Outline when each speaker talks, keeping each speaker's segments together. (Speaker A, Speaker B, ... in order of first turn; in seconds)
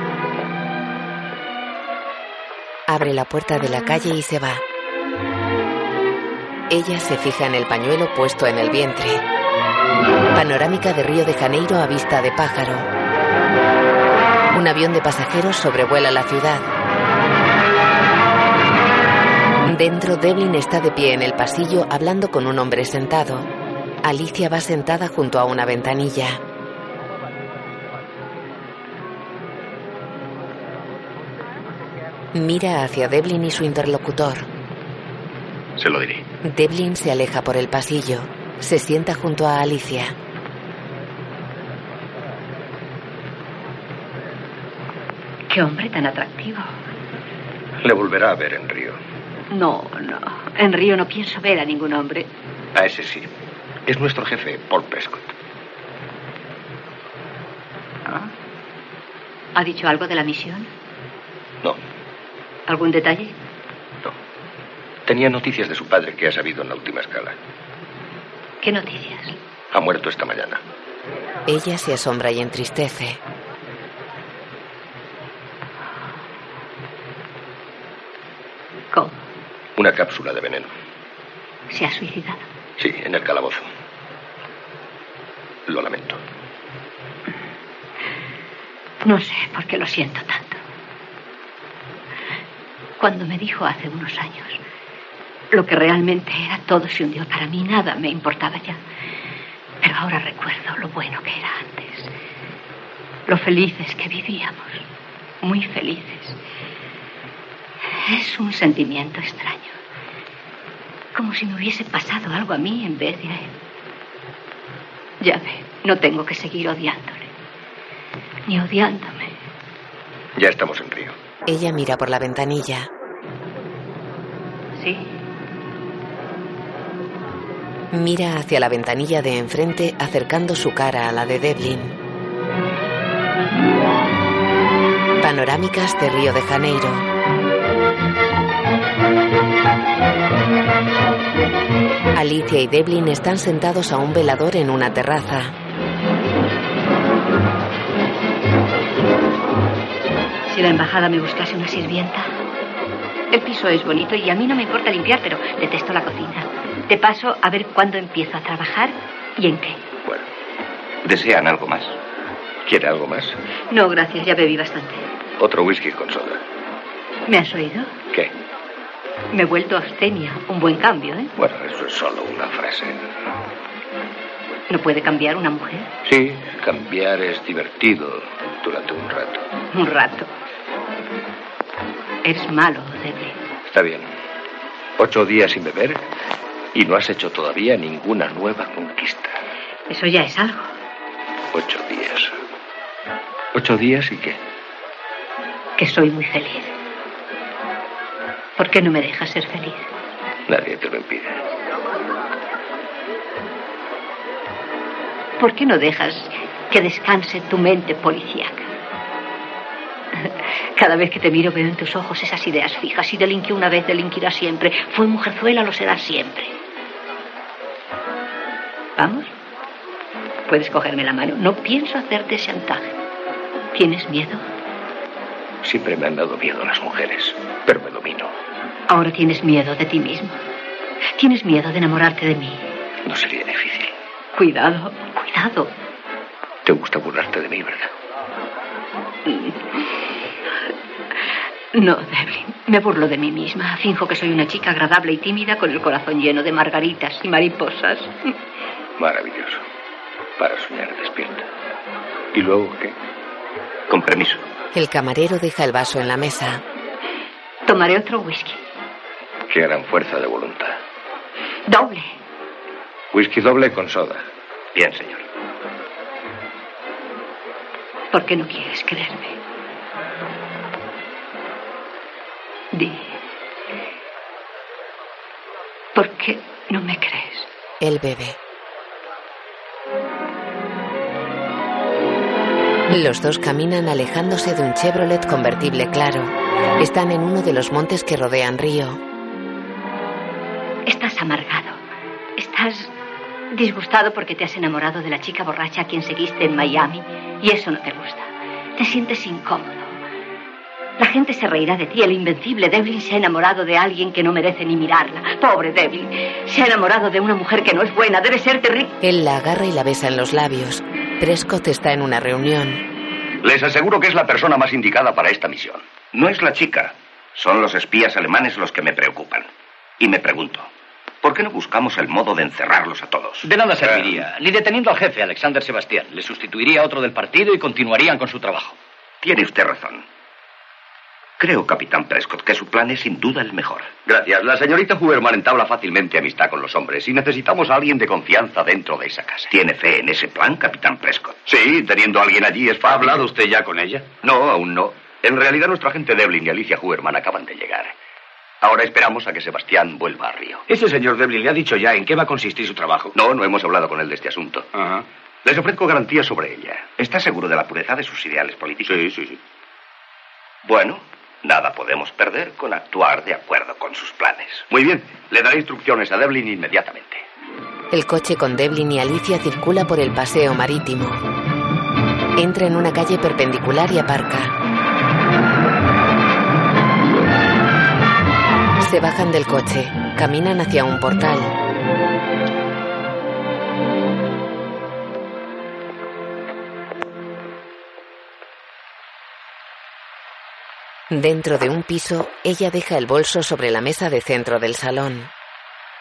Speaker A: 2.9-4.6, 6.7-9.2, 10.3-12.9, 14.5-16.7, 19.6-23.5, 24.0-26.4, 32.3-34.5, 36.4-40.1, 71.5-73.2, 121.5-122.9, 127.9-131.9, 135.2-137.1, 142.1-145.5, 254.7-256.6, 277.8-278.4, 282.9-289.0, 309.0-312.8, 367.9-371.2, 372.4-374.5, 378.8-381.5, 391.1-395.3
Speaker B: 35.8-36.2, 264.8-265.1, 313.4-319.4, 320.0-320.6, 321.2-323.4, 329.2-330.0, 331.4-343.4, 344.2-347.9, 348.6-350.6, 353.1-359.4, 360.6-367.2
Speaker C: 45.5-46.7, 49.5-52.3, 59.5-60.7, 62.7-63.3, 68.6-69.4, 81.7-82.4, 89.0-90.6, 93.0-94.6, 95.5-98.8, 99.8-102.1, 103.3-104.8, 105.4-106.4, 108.0-109.7, 111.1-113.5, 115.2-117.3, 118.5-119.3, 124.8-125.1, 150.5-152.3, 153.3-159.8, 163.7-165.0, 167.3-167.9, 169.3-171.3, 174.7-175.9, 179.7-180.3, 182.2-183.3, 189.9-190.7, 195.8-196.7, 198.6-199.9, 205.4-208.7, 210.2-216.5, 219.0-219.3, 220.5-222.9, 223.7-224.4, 228.9-230.4, 231.2-232.6, 234.3-235.7, 239.3-239.6, 241.7-248.3, 257.6-258.6, 261.7-262.1, 268.1-269.4, 272.7-273.1, 275.9-277.5, 290.9-291.8, 292.4-292.9, 293.5-300.0, 301.0-308.9
Speaker D: 47.8-49.0, 52.7-53.3, 53.9-55.3, 65.1-67.3, 69.7-70.6, 79.8-80.7, 82.8-83.7, 85.7-86.2, 120.3-121.1, 162.7-163.4, 165.4-166.4, 171.4-173.0, 176.0-179.4, 183.7-184.1, 185.0-186.0, 186.7-189.3, 191.5-192.3, 193.5-194.4, 200.5-201.4, 225.6-228.3, 233.1-233.9, 236.6-237.9, 249.0-249.6, 250.4-251.4, 252.3-252.9, 259.5-260.8, 263.1-264.2, 343.5-344.0, 350.7-353.1
Speaker E: 323.4-328.8